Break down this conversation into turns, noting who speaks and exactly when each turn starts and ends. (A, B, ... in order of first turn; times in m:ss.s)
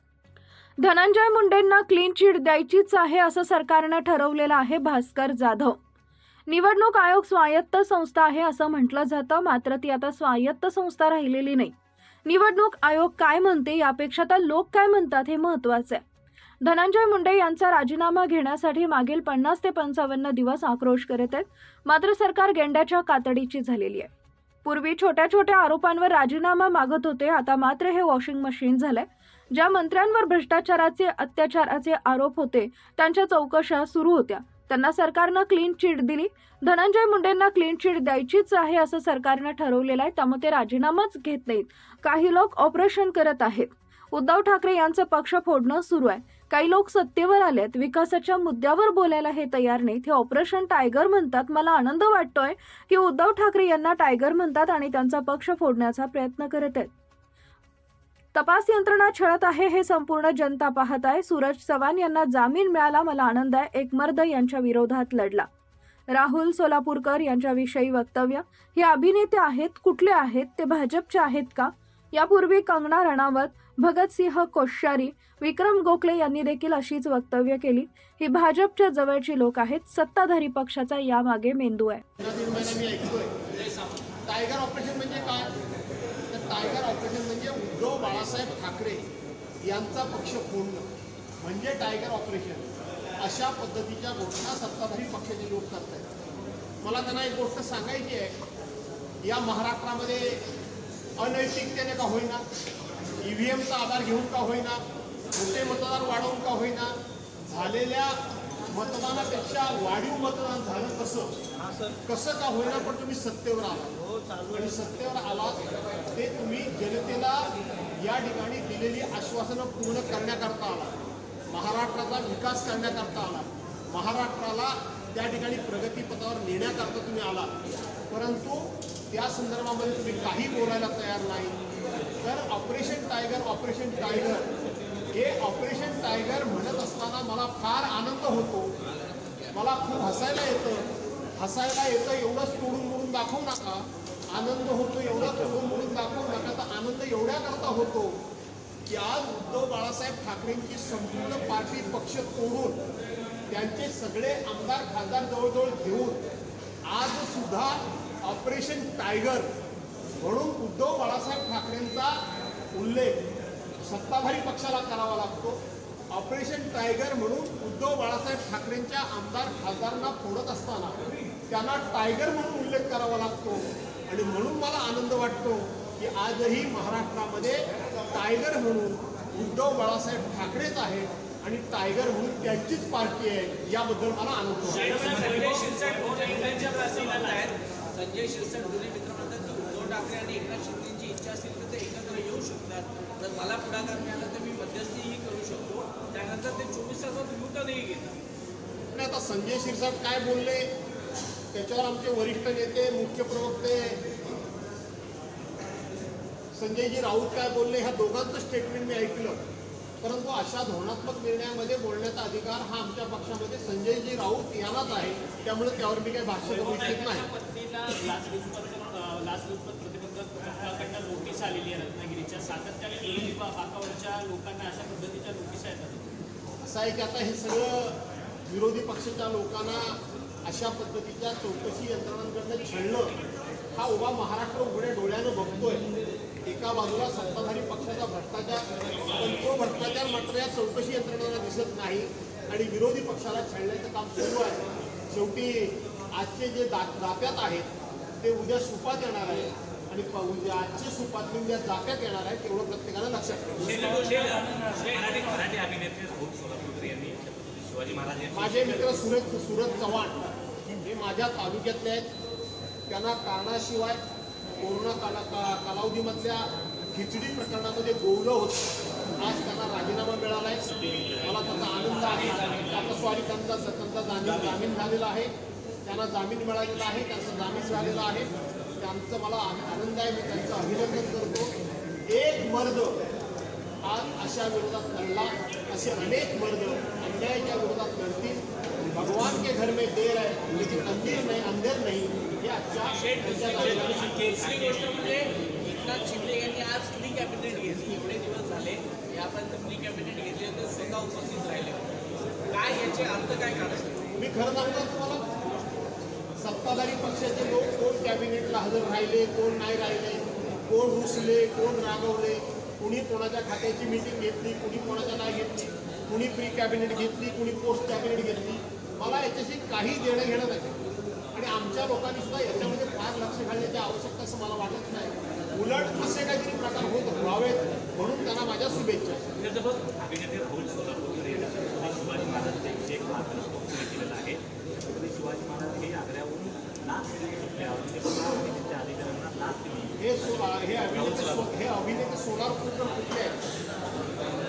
0:00.8-0:05.8 A
0:06.5-0:11.7 A
0:12.2-0:16.0 A
0:16.6-0:24.1 A
0:24.6-0:56.9 A
0:58.3-1:05.5 A
1:06.1-1:22.0 A
1:22.2-1:23.3 B
1:24.3-1:25.5 B
1:26.3-1:29.1 B
1:29.6-1:30.9 B
1:31.4-1:36.1 B
1:36.8-1:38.4 B
1:39.2-1:40.4 B
1:41.2-1:42.4 B
1:43.2-1:46.9 B
1:47.5-1:51.4 B
1:52.1-2:07.6 B
2:08.1-2:11.6 B
2:12.2-2:14.5 B
2:15.1-2:18.7 B
2:19.5-2:28.2 B
2:28.9-2:32.8 B
2:33.5-2:36.2 B
2:36.8-2:39.5 B
2:40.1-2:42.2 B
2:42.7-2:43.2 B
2:43.8-2:45.6 B
2:46.1-3:05.1 B
3:04.7-3:18.2 C
3:18.9-3:20.7 B
3:21.5-3:24.0 B
3:26.5-3:29.4 B
3:30.0-3:37.3 B
3:36.5-3:38.0 C
3:39.2-3:40.4 D
3:40.9-3:42.4 C
3:43.0-3:43.4 C
3:43.5-3:45.9 D
3:46.6-3:53.2 B
3:53.7-3:55.8 B
3:56.4-4:07.7 B
4:08.2-4:13.8 B
4:13.7-4:14.7 C
4:13.8-4:18.9 E
4:18.3-4:22.1 B
4:22.9-4:24.0 B
4:24.6-4:35.3 B
4:35.8-4:41.5 B
4:42.1-4:43.0 B
4:43.8-4:54.3 B
4:52.9-5:01.9 C
5:02.5-5:04.1 C
5:04.2-5:05.3 B
5:06.4-5:20.8 B
5:21.3-5:29.3 B
5:29.4-5:41.5 E
5:40.0-5:43.4 B